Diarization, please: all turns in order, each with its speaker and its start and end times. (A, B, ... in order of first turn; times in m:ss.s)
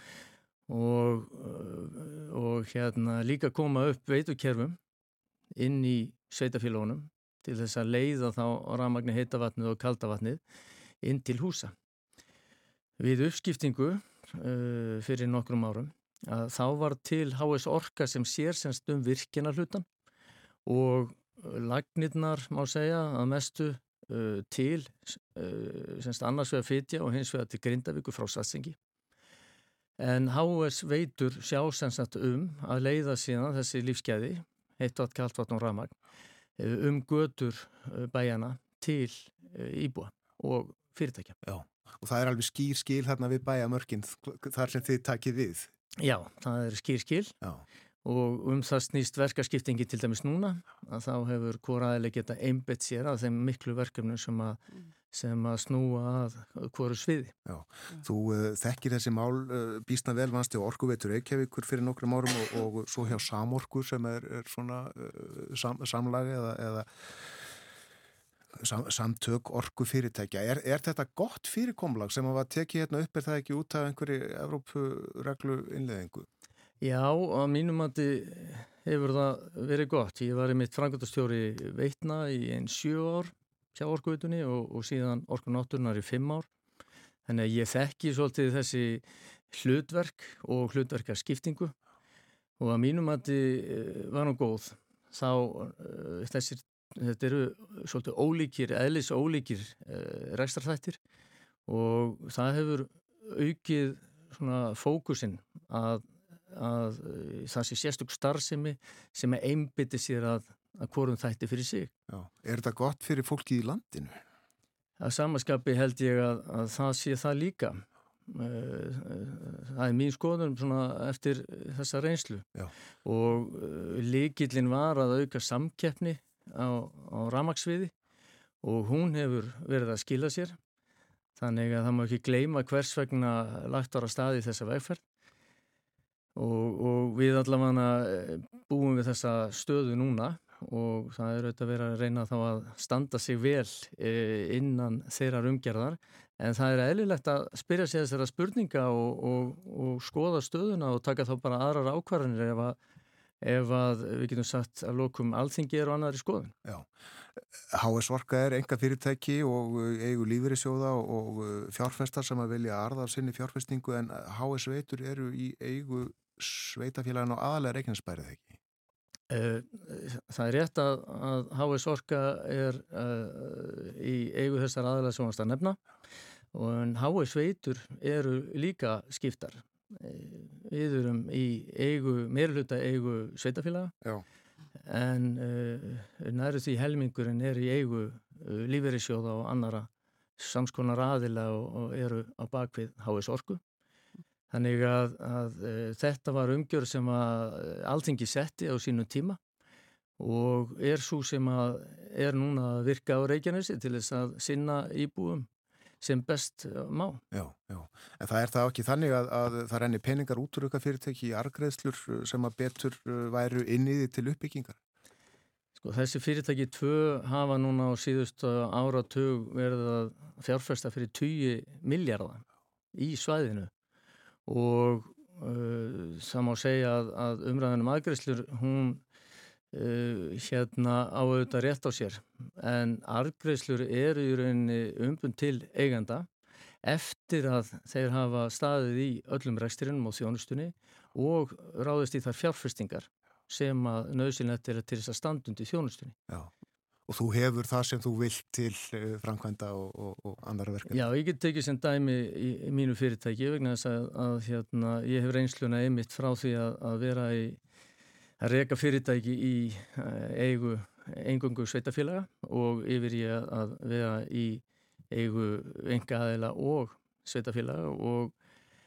0:00.7-0:04.8 A
0:05.6-0:10.4 A
0:11.0-0:11.7 A
0:13.0-0:19.9 A
0:20.7-0:28.8 A
0:30.0-0:36.0 A
0:36.6-0:41.4 A
0:41.4-0:45.7 B
0:46.0-0:47.3 A
0:48.0-0:57.3 A
0:57.5-1:07.5 B
1:08.6-1:16.3 B
1:16.8-1:26.5 A
1:27.3-1:31.7 A
1:32.6-1:41.0 A
1:41.7-1:51.9 A
1:52.1-1:54.2 B
1:55.0-2:02.5 A
2:03.0-2:07.9 A
2:08.6-2:10.6 A
2:11.4-2:15.0 A
2:16.4-2:32.8 A
2:33.4-2:36.5 A
2:36.6-2:48.6 B
2:49.3-2:55.8 A
2:56.5-3:03.9 A
3:04.9-3:13.6 A
3:14.5-3:19.4 A
3:20.2-3:25.5 A
3:26.0-3:27.2 A
3:27.3-3:34.8 B
3:35.8-3:43.7 A
3:44.5-3:49.0 A
3:49.7-3:56.3 A
3:56.8-4:06.2 A
4:07.1-4:11.1 B
4:10.9-4:17.6 A
4:18.4-4:28.3 A